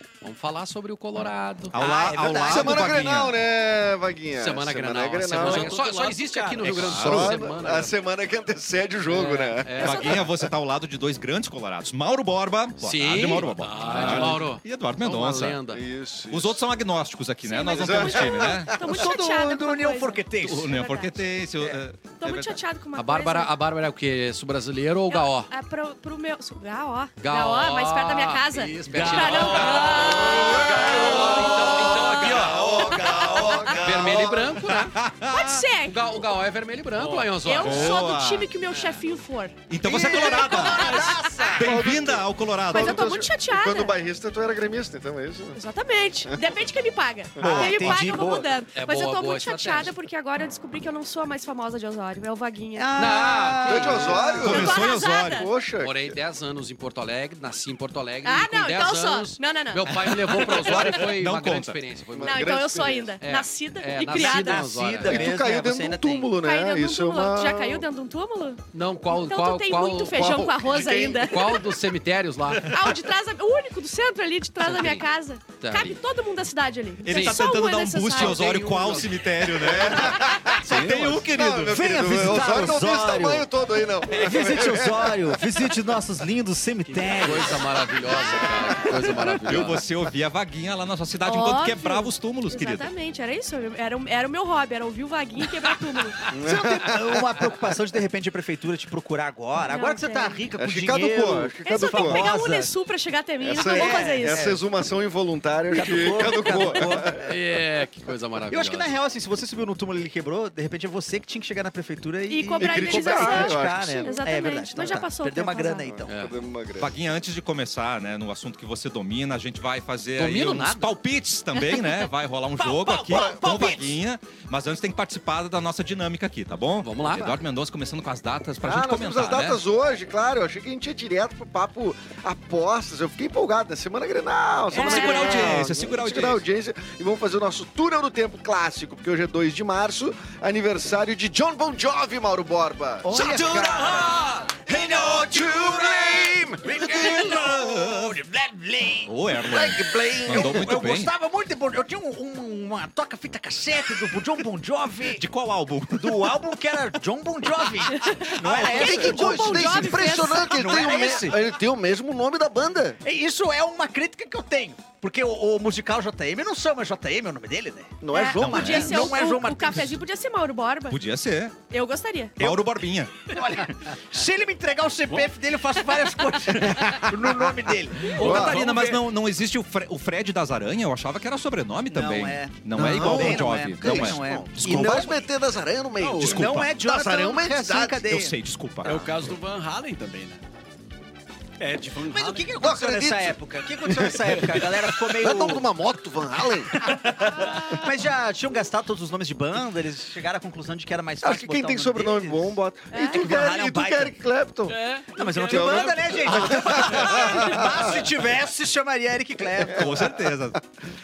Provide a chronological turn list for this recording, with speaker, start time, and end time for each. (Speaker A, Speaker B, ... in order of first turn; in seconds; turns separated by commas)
Speaker A: 0.2-1.8, Speaker B: 1.7-3.4, Speaker C: 1.8-3.0, Speaker D: 2.4-5.8, Speaker A: 4.3-8.0, Speaker C: 5.4-6.9, Speaker B: 6.6-7.4, Speaker D: 6.8-10.1, Speaker A: 9.1-10.2, Speaker B: 9.8-15.6, Speaker E: 9.8-10.2, Speaker A: 12.8-15.8, Speaker D: 15.7-16.6, Speaker B: 16.3-18.9, Speaker E: 17.4-21.3, Speaker D: 17.7-18.7, Speaker C: 18.8-20.8, Speaker B: 20.4-22.6, Speaker E: 22.2-23.5, Speaker A: 23.0-25.5, Speaker E: 25.1-30.8, Speaker A: 27.2-32.7, Speaker C: 28.9-30.0, Speaker F: 29.0-29.5, Speaker B: 29.3-29.8, Speaker D: 30.0-34.6, Speaker B: 30.3-35.6, Speaker C: 32.1-33.8, Speaker E: 33.3-33.7, Speaker A: 33.8-35.0, Speaker E: 35.3-36.2, Speaker A: 35.8-38.0, Speaker F: 37.0-37.4, Speaker E: 37.4-41.6, Speaker B: 37.6-38.5, Speaker A: 38.7-39.0, Speaker B: 39.7-43.3, Speaker C: 39.9-41.8, Speaker D: 41.6-45.6, Speaker E: 42.7-44.0, Speaker E: 45.5-53.2, Speaker D: 47.4-47.7, Speaker B: 47.4-48.2, Speaker C: 47.4-48.5, Speaker A: 48.7-49.9, Speaker C: 52.8-54.6, Speaker A: 53.0-54.3, Speaker D: 53.6-56.2, Speaker B: 54.2-55.5, Speaker E: 54.4-55.5, Speaker A: 55.8-62.6, Speaker E: 58.2-61.0, Speaker B: 60.0-61.8, Speaker D: 62.1-63.2, Speaker E: 62.2-64.7, Speaker A: 63.2-65.3, Speaker C: 64.1-66.3, Speaker D: 65.1-67.9, Speaker E: 66.4-71.7, Speaker A: 68.7-70.4, Speaker D: 70.1-71.5, Speaker A: 71.2-72.8, Speaker E: 72.6-79.1, Speaker A: 74.6-75.1, Speaker A: 75.6-76.0, Speaker B: 77.0-82.8, Speaker A: 78.4-79.0, Speaker D: 79.4-85.8, Speaker F: 80.8-81.2, Speaker C: 81.6-83.5, Speaker C: 84.1-87.6, Speaker F: 86.8-87.5, Speaker A: 87.1-89.8, Speaker E: 88.0-88.7, Speaker B: 89.3-92.9, Speaker E: 91.2-96.2, Speaker D: 96.3-97.4, Speaker C: 96.3-102.7, Speaker E: 99.7-100.5, Speaker D: 100.6-102.3, Speaker E: 101.7-104.5, Speaker D: 103.4-107.3, Speaker C: 103.7-104.6, Speaker C: 105.7-107.3, Speaker A: 107.2-108.9, Speaker C: 108.5-116.1, Speaker E: 112.3-115.9, Speaker D: 112.6-114.2, Speaker D: 115.9-116.9, Speaker A: 116.1-116.4, Speaker B: 116.8-129.6, Speaker A: 120.2-121.0, Speaker E: 121.5-121.9, Speaker C: 122.6-124.0, Speaker D: 123.1-123.4, Speaker A: 126.8-127.4, Speaker D: 128.6-143.4, Speaker B: 134.7-136.4, Speaker E: 134.7-135.6, Speaker C: 134.8-135.3, Speaker C: 143.0-155.2, Speaker B: 143.1-145.9, Speaker D: 144.7-147.3, Speaker B: 146.7-148.2, Speaker B: 149.1-151.1, Speaker D: 149.4-150.7, Speaker B: 155.1-156.4, Speaker C: 155.9-161.4, Speaker E: 158.0-160.8, Speaker B: 158.3-159.5, Speaker D: 158.4-163.0, Speaker C: 163.0-170.0, Speaker D: 168.0-169.2, Speaker E: 168.1-171.0, Speaker B: 168.4-169.0, Speaker B: 170.9-171.6, Speaker E: 171.7-172.4, Speaker B: 172.4-173.1, Speaker C: 172.4-179.0, Speaker D: 176.7-178.6, Speaker B: 178.2-185.1, Speaker F: 178.2-178.9, Speaker C: 181.9-185.2, Speaker D: 182.8-188.1, Speaker F: 186.0-186.5, Speaker B: 186.2-186.7, Speaker C: 186.2-189.1, Speaker B: 188.1-189.1, Speaker F: 188.8-190.4, Speaker F: 191.6-192.5, Speaker C: 192.0-195.7, Speaker D: 192.6-196.7, Speaker F: 194.1-194.9, Speaker C: 196.7-204.1, Speaker D: 201.2-204.8, Speaker E: 202.9-203.3, Speaker F: 204.7-205.8, Speaker C: 205.1-210.1, Speaker D: 205.5-208.0, Speaker D: 209.4-210.3, Speaker B: 209.7-210.6